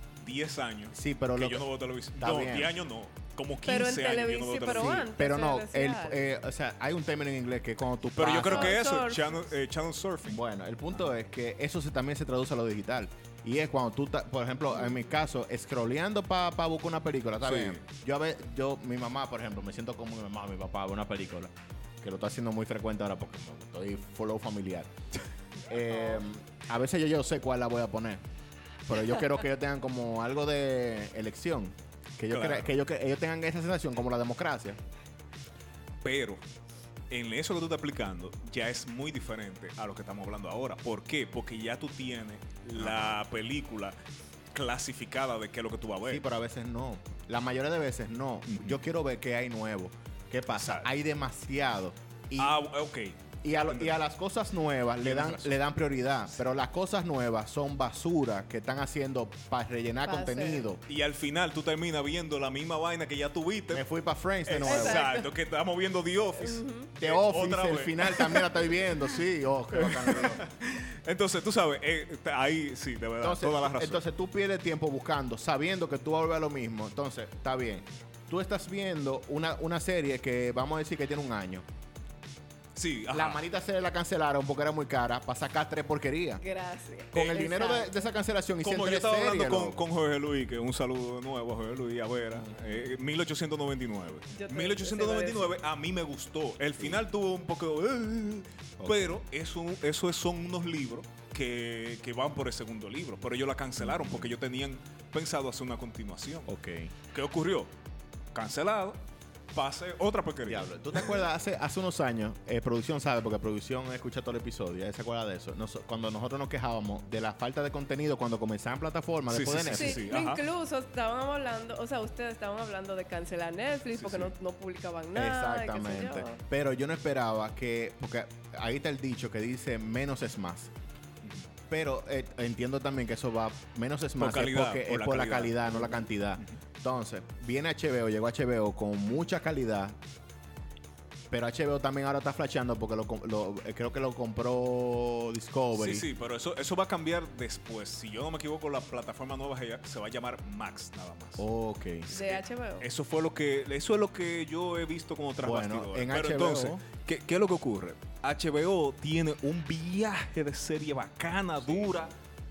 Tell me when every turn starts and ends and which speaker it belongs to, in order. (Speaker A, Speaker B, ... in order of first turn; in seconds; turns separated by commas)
Speaker A: 0.2-5.1, Speaker B: 0.9-2.8, Speaker C: 3.6-6.3, Speaker B: 4.7-8.8, Speaker A: 8.2-10.4, Speaker C: 8.4-9.5, Speaker B: 10.2-24.9, Speaker A: 17.4-17.8, Speaker B: 25.7-28.2, Speaker B: 28.9-34.8, Speaker A: 32.3-32.8, Speaker A: 36.0-36.4, Speaker A: 37.1-44.0, Speaker B: 42.8-43.2, Speaker A: 44.5-46.2, Speaker B: 46.0-52.6, Speaker A: 48.5-48.8, Speaker A: 50.5-50.9, Speaker A: 52.4-54.0, Speaker B: 53.4-60.8, Speaker A: 55.0-55.6, Speaker C: 60.0-60.7, Speaker A: 60.9-63.8, Speaker B: 63.7-65.0, Speaker A: 64.5-68.9, Speaker C: 64.7-65.3, Speaker C: 66.4-66.9, Speaker B: 67.0-70.4, Speaker A: 69.7-74.0, Speaker B: 73.2-81.7, Speaker A: 82.8-83.4, Speaker B: 83.1-86.4, Speaker C: 86.4-88.0, Speaker B: 87.1-89.8, Speaker A: 87.2-87.4, Speaker A: 88.6-106.5, Speaker B: 92.3-92.9, Speaker C: 94.3-95.5, Speaker B: 96.8-97.0, Speaker B: 98.8-99.2, Speaker B: 103.8-104.4, Speaker B: 106.5-106.9, Speaker A: 107.1-107.7, Speaker A: 108.3-109.0, Speaker A: 109.5-111.2, Speaker B: 110.5-120.0, Speaker A: 119.3-120.4, Speaker C: 119.7-126.4, Speaker A: 123.9-124.3, Speaker B: 125.1-130.7, Speaker B: 131.7-140.0, Speaker A: 134.2-136.6, Speaker B: 141.3-146.1, Speaker A: 145.8-151.4, Speaker B: 151.4-152.1, Speaker C: 152.1-152.9, Speaker A: 152.1-162.1, Speaker B: 155.4-156.8